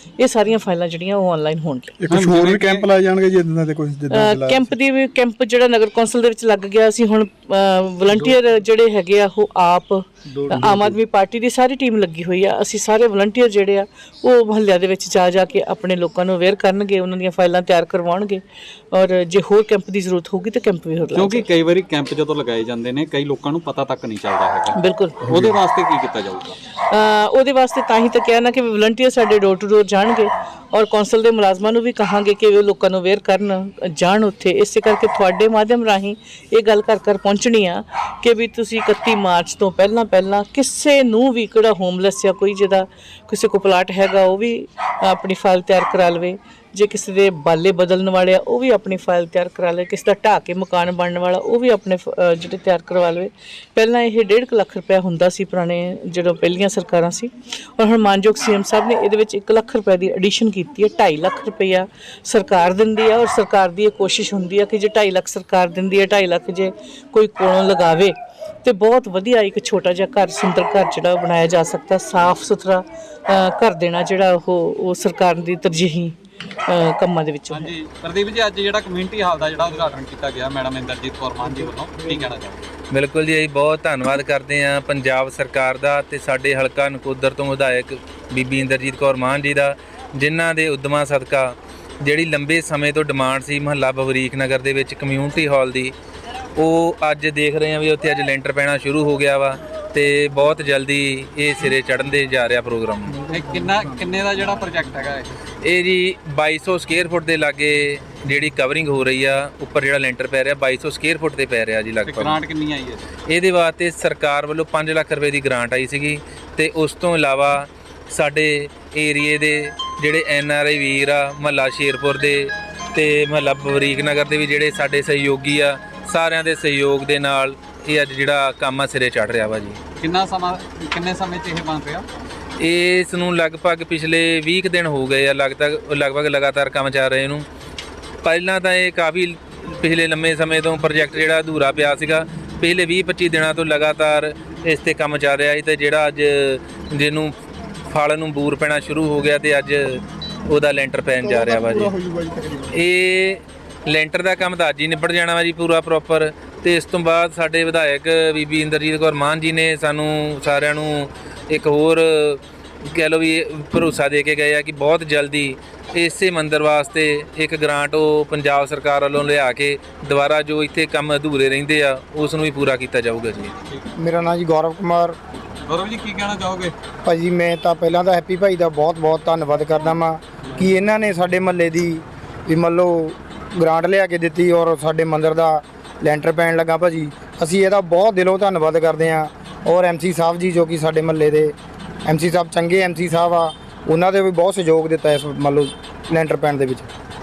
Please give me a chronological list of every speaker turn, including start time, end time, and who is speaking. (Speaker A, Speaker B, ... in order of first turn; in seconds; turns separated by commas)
Speaker A: 0.2-1.9, Speaker B: 2.0-4.7, Speaker C: 2.1-2.9, Speaker A: 4.1-21.5, Speaker B: 10.3-11.0, Speaker C: 21.1-26.6, Speaker A: 24.8-25.2, Speaker A: 26.9-76.2, Speaker A: 76.7-77.7, Speaker C: 77.5-82.7, Speaker D: 82.9-95.9, Speaker D: 96.6-103.2, Speaker C: 103.3-105.3, Speaker D: 105.6-112.4, Speaker C: 112.0-113.0, Speaker D: 113.3-129.8, Speaker C: 130.0-132.1, Speaker D: 132.6-137.5, Speaker D: 138.2-147.4, Speaker D: 147.9-151.9, Speaker B: 151.2-152.8, Speaker D: 152.7-173.5, Speaker E: 174.0-175.2, Speaker C: 175.7-176.8, Speaker E: 177.1-191.5, Speaker E: 192.1-196.9